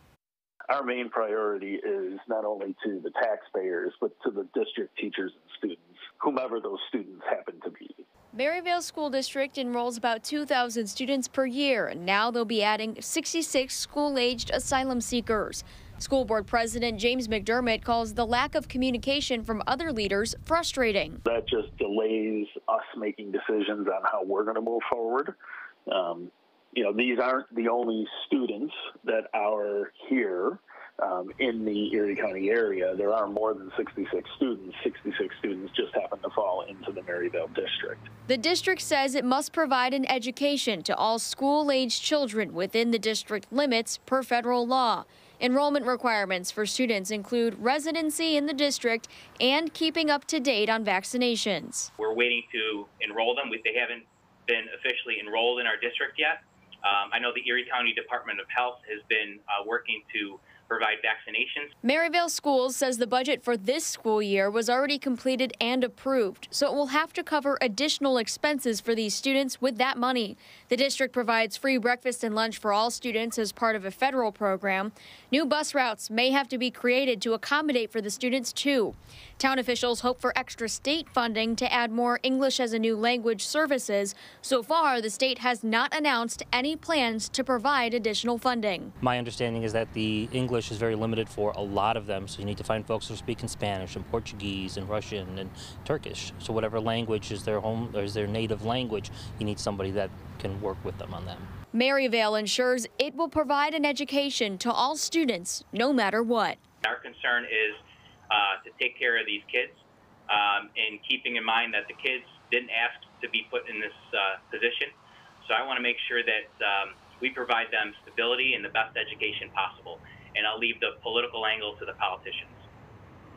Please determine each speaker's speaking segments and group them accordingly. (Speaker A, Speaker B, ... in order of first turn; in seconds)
Speaker A: 0.7-8.1, 21.2-25.3, 25.9-38.1
Speaker B: 8.3-21.2, 38.3-51.9, 61.8-88.9, 101.7-106.6
Speaker C: 52.0-61.7, 106.8-114.9, 115.4-122.6
Speaker D: 89.0-101.5